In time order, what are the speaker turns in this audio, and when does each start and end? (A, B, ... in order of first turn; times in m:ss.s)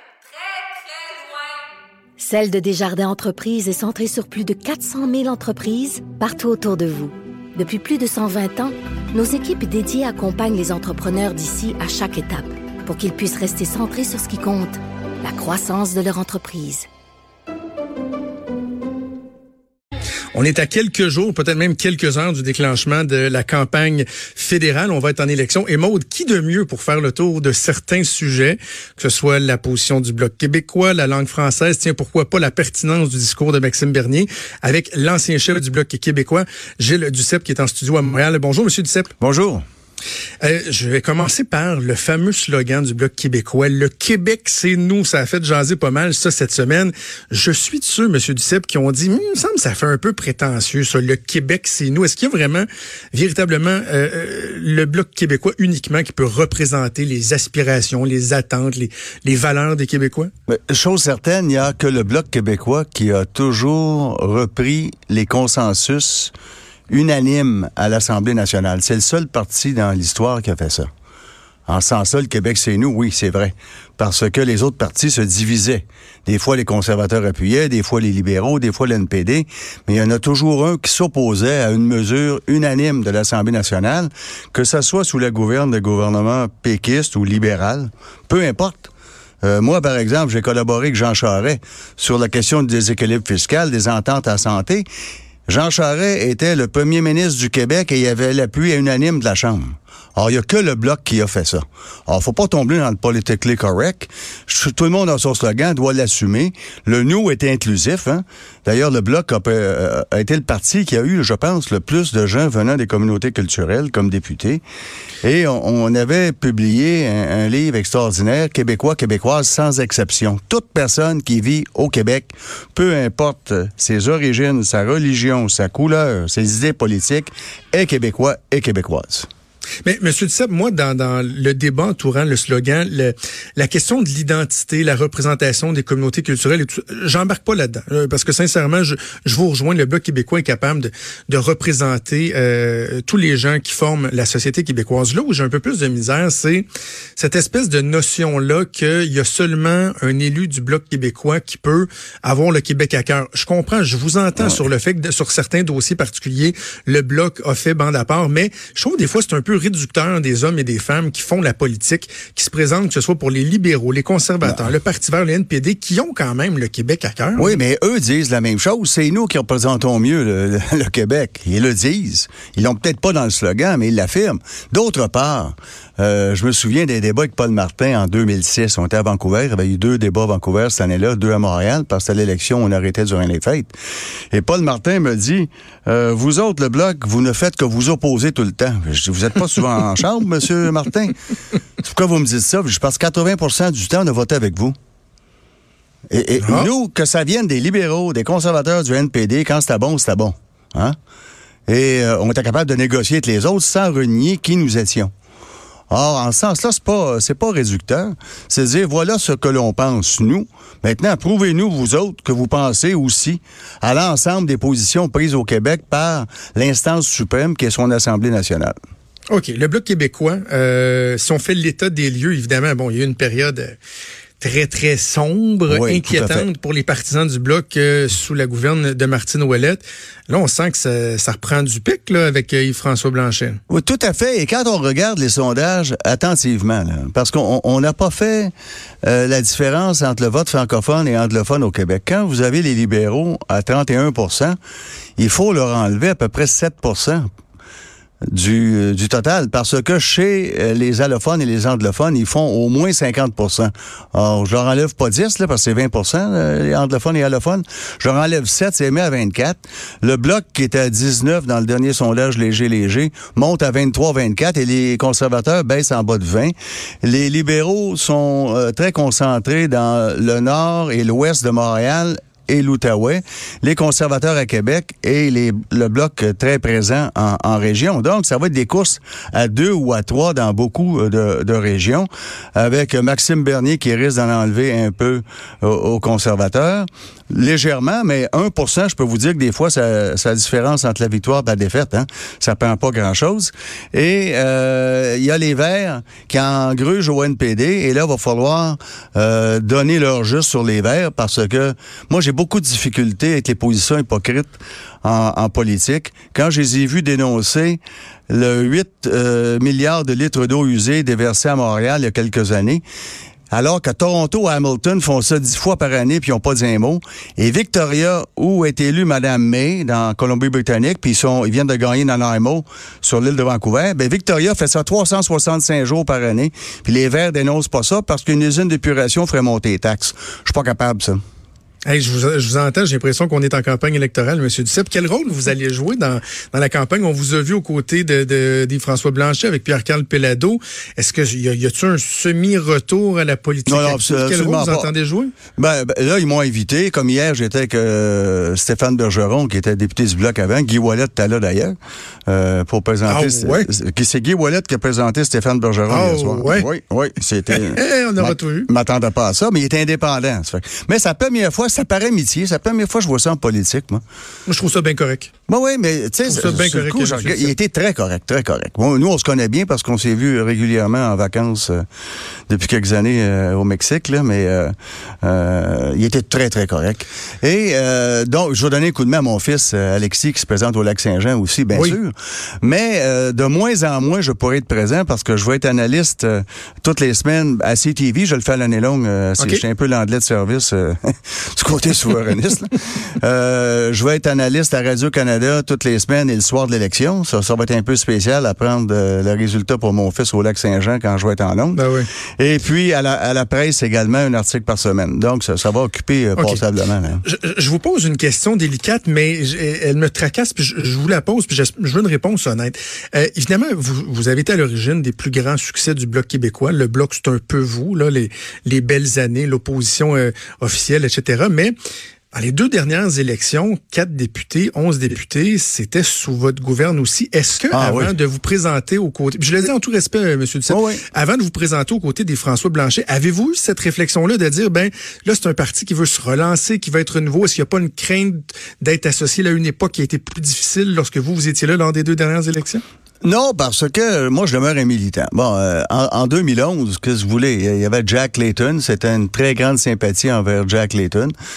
0:02.2-0:16.9 A
0:20.3-0:39.1 B
0:39.2-0:39.6 C
0:40.4-1:00.3 B
1:00.5-1:06.3 C
1:06.9-1:10.9 C
1:11.7-1:28.9 C
1:29.4-1:34.8 C
1:35.5-1:54.6 C
1:55.2-2:09.3 C
2:09.8-2:47.6 B
2:44.4-2:44.7 C
2:47.4-3:03.7 C
3:04.3-3:11.2 C
3:11.8-3:14.8 C
3:16.1-3:21.0 C
3:16.4-3:16.7 B
3:21.7-3:25.1 C
3:25.9-3:38.8 C
3:39.3-3:43.8 B
3:44.4-3:53.6 B
3:45.7-3:46.5 C
3:53.7-3:58.5 C
3:59.0-4:04.6 C
4:05.2-4:07.3 C
4:08.2-5:12.8 C
5:13.5-5:31.2 C
5:31.8-5:45.3 B
5:43.7-5:44.9 C
5:45.6-5:51.8 C
5:52.3-6:04.0 C
5:53.1-5:53.7 B
5:55.9-5:56.7 B
5:57.5-5:58.7 B
6:04.4-6:05.3 B
6:05.5-6:11.8 C
6:06.2-6:07.5 B
6:12.5-6:41.8 C
6:41.7-6:42.1 B
6:42.4-6:47.2 C
6:47.2-7:01.7 B
7:02.3-7:22.8 B
7:07.7-7:08.1 C
7:10.7-7:11.0 C
7:23.2-7:31.3 C